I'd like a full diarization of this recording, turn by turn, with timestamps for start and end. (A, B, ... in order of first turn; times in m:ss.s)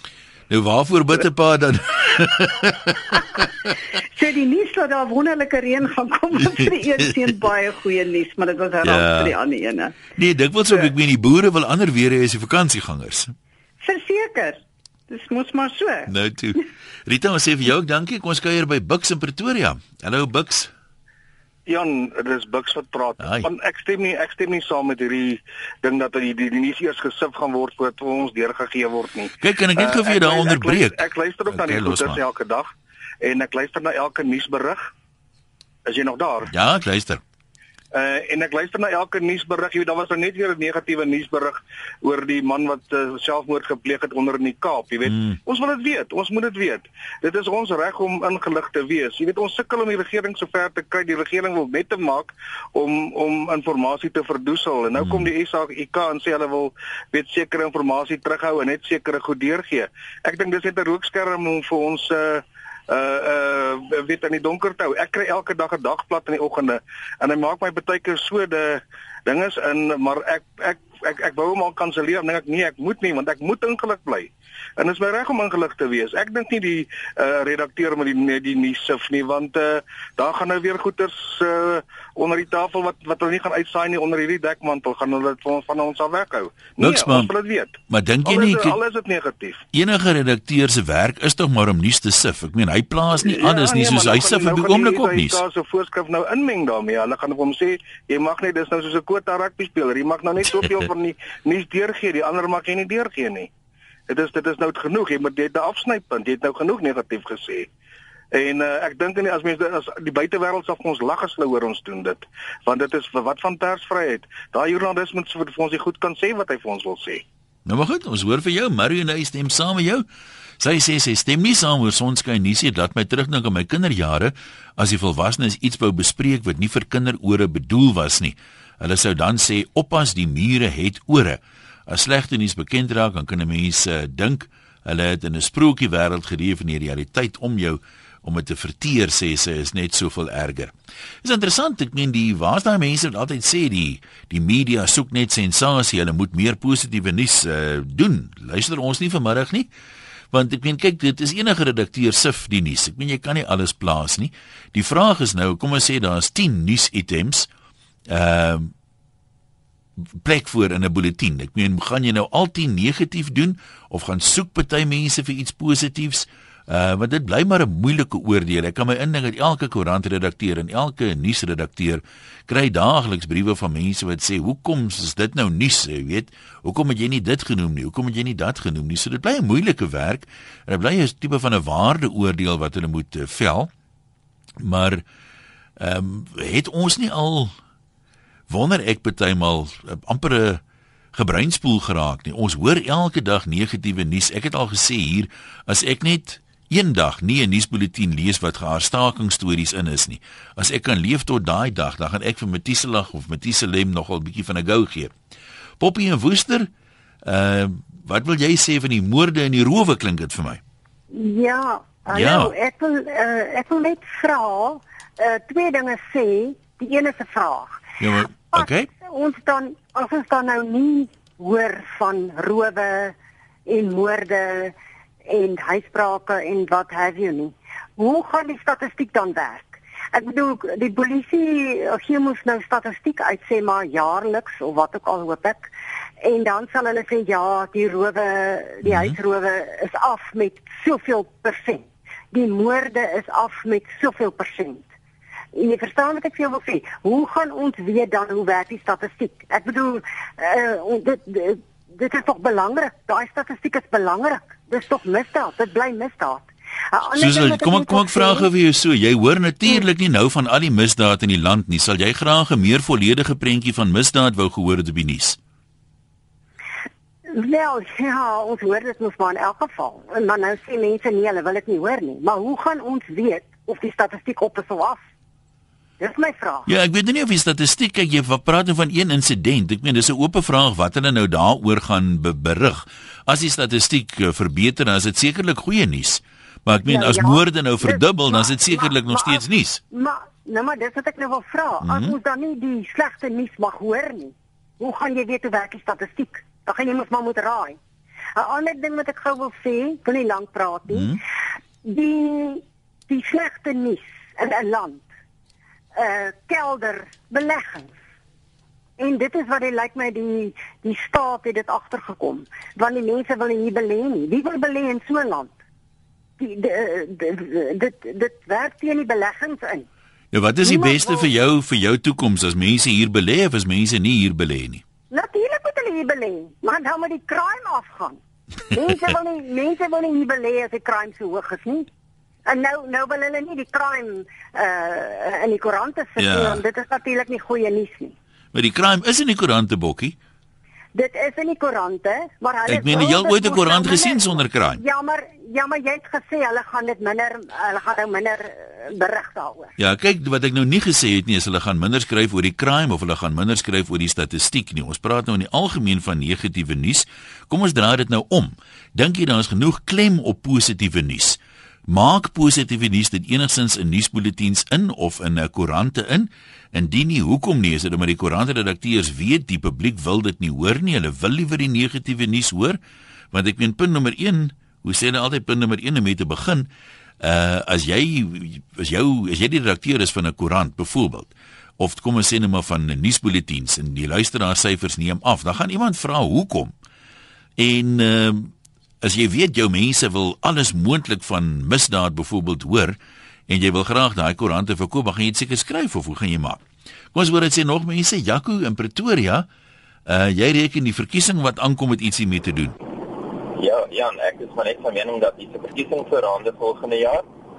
0:00.5-0:03.7 A
0:04.1-0:09.9 B
0:06.4-0:07.3 A
0:08.8-0:09.3 A
0:10.1-0:13.3 A
0:13.8-0:16.1 B
0:16.1-0:20.7 A
0:21.6-0:32.7 C
0:23.2-0:23.5 A
0:29.4-0:32.2 A
0:33.2-0:34.9 C
0:35.9-0:36.5 C
0:36.5-0:37.2 A
0:37.9-1:29.6 C
0:45.1-0:45.4 A
0:55.0-0:55.3 A
1:26.8-1:27.3 A
1:27.9-1:28.8 A
1:29.7-1:35.4 A
1:33.2-1:43.5 C
1:44.1-1:47.7 C
1:48.3-1:57.2 C
1:57.6-2:00.0 A
2:00.6-2:29.7 A
2:30.3-2:37.5 A
2:38.1-2:38.7 A
2:40.2-3:03.7 A
3:04.6-3:05.0 A
3:05.8-3:07.5 A
3:08.5-3:10.6 A
3:11.1-3:25.1 A
3:25.8-3:26.7 A
3:27.2-3:30.6 A
3:31.1-3:37.8 D
3:32.1-3:32.5 A
3:38.0-3:38.9 A
3:38.5-3:43.1 D
3:43.6-3:44.7 D
3:45.2-3:55.7 D
3:56.2-4:04.8 D
3:58.8-3:59.2 A
4:05.5-4:18.5 D
4:17.2-4:25.4 A
4:27.3-4:35.0 D
4:36.0-4:36.6 D
4:36.6-4:49.8 A
4:46.8-4:57.8 D
4:51.8-4:52.1 A
4:58.4-5:01.2 D
5:00.9-5:01.2 A
5:01.8-5:05.0 D
5:05.9-5:07.9 D
5:09.0-5:15.5 D
5:16.4-5:19.8 D
5:20.3-5:24.8 A
5:20.6-5:21.3 D
5:25.1-5:28.2 D
5:28.7-5:31.9 D
5:32.4-5:38.1 D
5:36.2-5:36.6 A
5:38.5-5:40.2 A
5:40.9-5:49.7 D
5:42.6-5:44.8 A
5:49.8-6:12.8 A
6:13.3-6:16.7 A
6:17.2-6:26.7 A
6:27.6-6:36.6 A
6:37.1-6:39.5 A
6:40.1-6:42.8 A
6:43.6-6:47.2 E